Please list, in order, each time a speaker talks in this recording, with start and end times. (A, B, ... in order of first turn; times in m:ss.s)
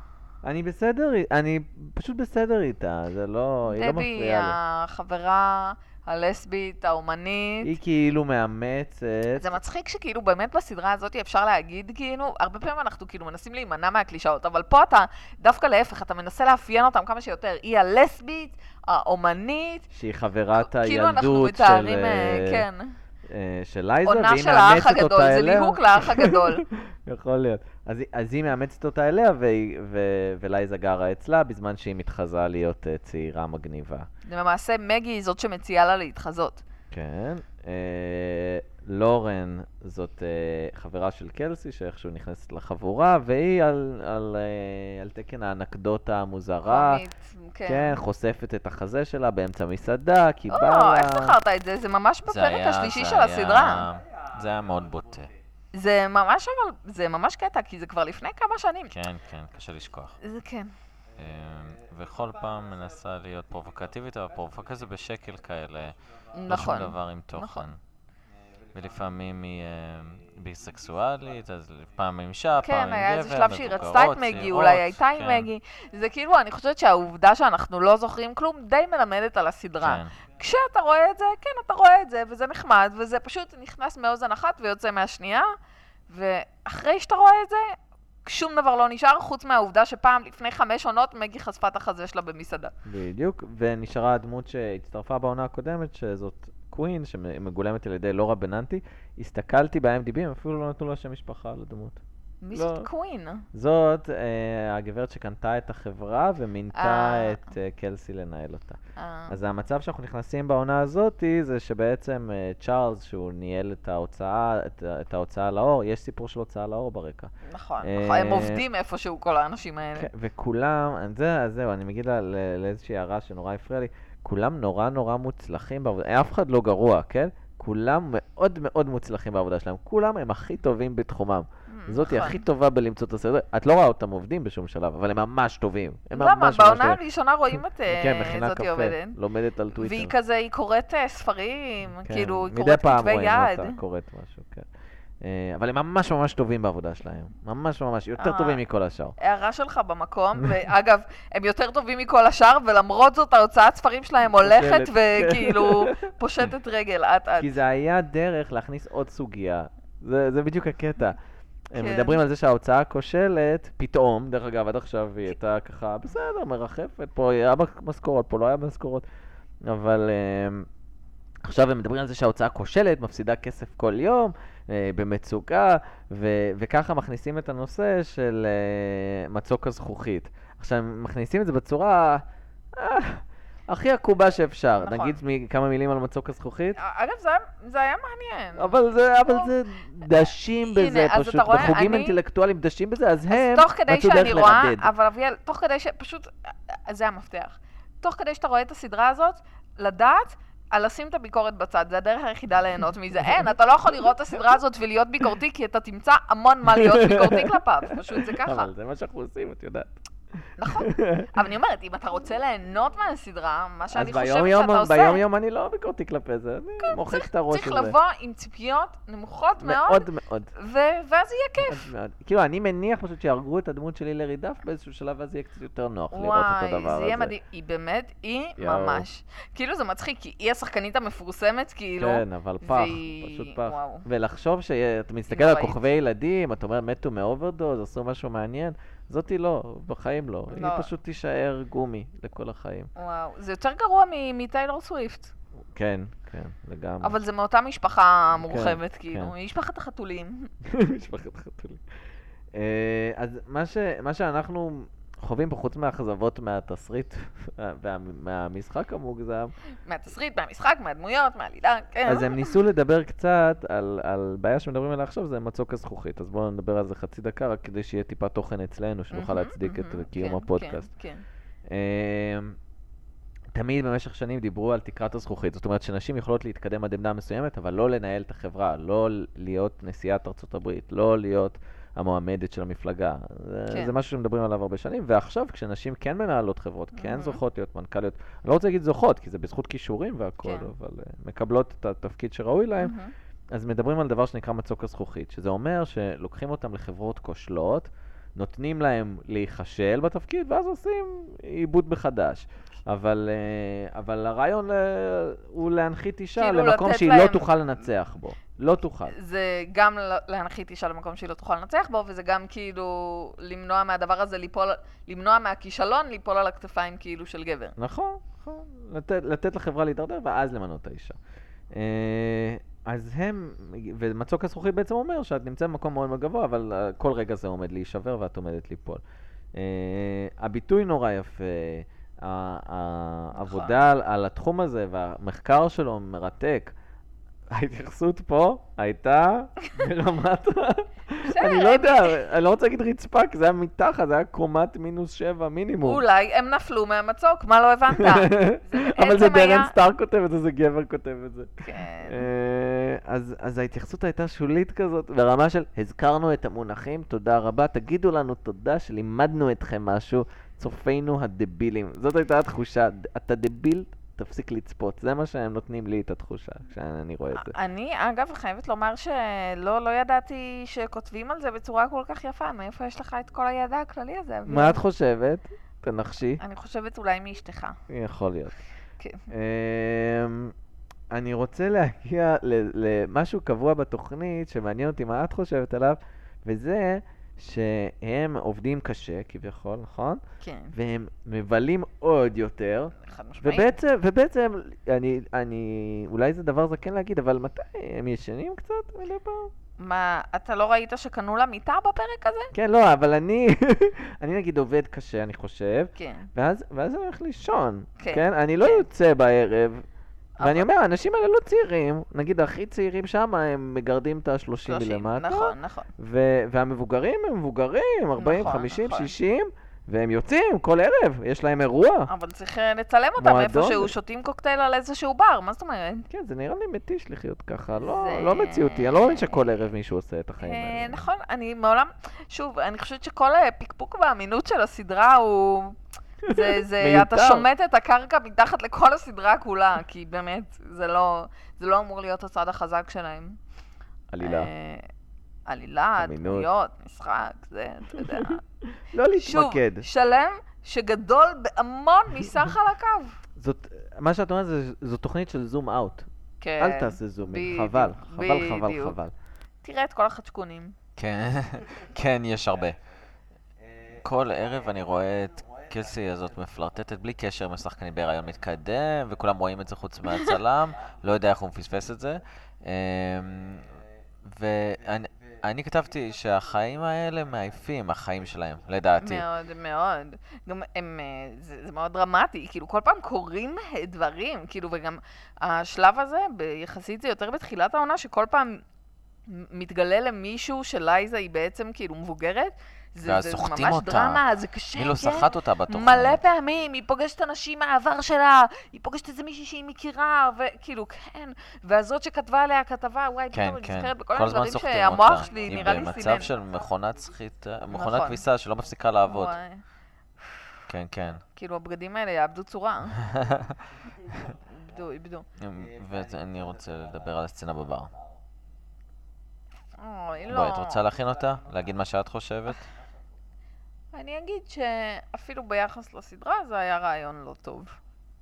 0:00.4-0:04.6 A
0:03.7-0:07.7 B
0:07.6-0:09.5 A
0:09.4-0:19.9 B
0:19.9-0:22.6 A
0:20.6-0:22.9 B
0:23.3-0:34.1 A
0:24.0-0:26.6 B
0:34.2-0:36.6 B
0:36.9-0:47.0 A
0:46.6-0:48.0 B
0:47.6-0:51.4 A
0:50.5-0:53.9 B
0:52.2-0:55.3 C
0:55.7-0:58.9 B
0:58.9-1:00.2 C
1:00.2-1:00.7 B
1:01.2-1:05.9 C
1:06.4-1:07.7 B
1:06.5-1:07.8 C
1:08.7-1:15.5 C
1:12.6-1:25.5 B
1:19.8-1:20.1 C
1:26.1-1:32.7 B
1:32.8-1:42.0 A
1:42.4-1:43.4 B
1:42.5-1:42.9 A
1:43.5-1:48.8 A
1:46.7-1:47.4 B
1:49.0-1:49.4 B
1:49.3-1:57.3 A
1:57.4-2:00.1 B
1:57.8-1:58.6 A
2:00.0-2:17.0 A
2:11.7-2:12.4 B
2:16.1-2:19.2 B
2:17.9-2:20.1 A
2:19.7-2:23.8 B
2:22.0-2:24.7 A
2:25.2-2:29.1 A
2:28.2-2:28.6 B
2:29.2-2:37.6 B
2:34.3-2:36.0 A
2:37.4-2:41.2 A
2:41.7-2:49.0 A
2:41.7-2:42.2 B
2:49.6-2:50.7 A
2:51.4-3:02.2 A
3:02.8-3:06.8 A
3:04.8-3:05.2 B
3:06.8-3:10.1 B
3:08.6-3:14.9 A
3:10.6-3:12.2 B
3:13.3-3:28.7 B
3:26.6-3:30.0 A
3:30.6-3:35.2 B
3:30.6-3:31.3 A
3:33.9-3:37.9 A
3:36.8-3:41.9 B
3:39.6-3:40.5 A
3:41.6-3:47.3 A
3:46.1-3:54.0 B
3:48.6-3:49.0 A
3:52.0-4:02.9 A
3:55.3-3:55.8 B
4:00.5-4:00.9 B
4:03.0-4:05.3 B
4:05.7-4:07.2 A
4:07.0-4:10.5 B
4:08.4-4:09.3 A
4:10.6-4:11.8 A
4:12.5-4:19.5 A
4:19.8-4:22.5 B
4:22.0-4:30.9 A
4:29.1-4:31.2 B
4:31.7-4:32.6 A
4:33.5-4:53.0 A
4:46.9-4:47.4 B
4:50.4-4:50.7 B
4:52.8-4:53.1 B
4:53.5-5:09.1 A
5:06.4-5:07.5 B
5:09.1-5:17.7 B
5:17.8-5:21.2 A
5:21.7-5:29.0 A
5:29.5-5:36.7 A
5:33.4-5:33.8 B
5:37.5-5:46.0 A
5:41.2-5:42.2 B
5:45.8-5:49.7 B
5:47.9-6:07.6 A
5:51.6-5:52.2 B
6:07.4-6:14.8 B
6:14.5-6:16.4 A
6:16.4-6:17.8 B
6:17.9-6:18.6 A
6:19.0-6:19.3 B
6:19.3-6:20.5 A
6:21.1-6:30.2 A
6:30.4-6:30.7 B
6:30.7-6:39.5 A
6:33.0-6:33.7 B
6:39.8-6:42.5 B
6:42.5-6:49.8 A
6:46.0-6:46.3 B
6:48.0-6:48.9 B
6:50.4-6:50.7 B
6:50.4-7:02.1 A
6:54.6-6:55.9 B
6:58.2-6:59.1 B
7:02.1-7:06.1 B
7:03.2-7:03.9 A
7:06.1-7:11.0 A
7:07.8-7:09.4 B
7:10.4-7:23.4 B
7:16.2-7:17.5 A
7:24.1-7:24.5 A
7:24.2-7:24.9 B
7:25.5-7:28.4 B
7:26.0-7:26.5 A
7:28.0-7:29.9 A
7:29.2-7:33.2 B
7:33.4-7:36.1 A
7:36.4-7:39.0 B
7:36.6-7:39.1 A
7:39.6-7:40.7 B
7:41.0-7:42.8 C
7:43.9-7:53.7 C
7:54.2-7:59.2 C
7:59.0-8:08.6 B
8:09.3-8:26.3 B
8:13.0-8:14.2 C
8:14.7-8:16.2 C
8:23.3-8:29.4 C
8:27.7-8:28.2 B
8:29.1-8:29.6 B
8:30.7-8:31.2 C
8:31.4-8:33.0 B
8:33.0-8:33.5 C
8:34.5-8:35.3 B
8:35.4-8:37.9 C
8:39.8-8:40.8 B
8:40.3-8:42.6 C
8:43.9-8:47.8 B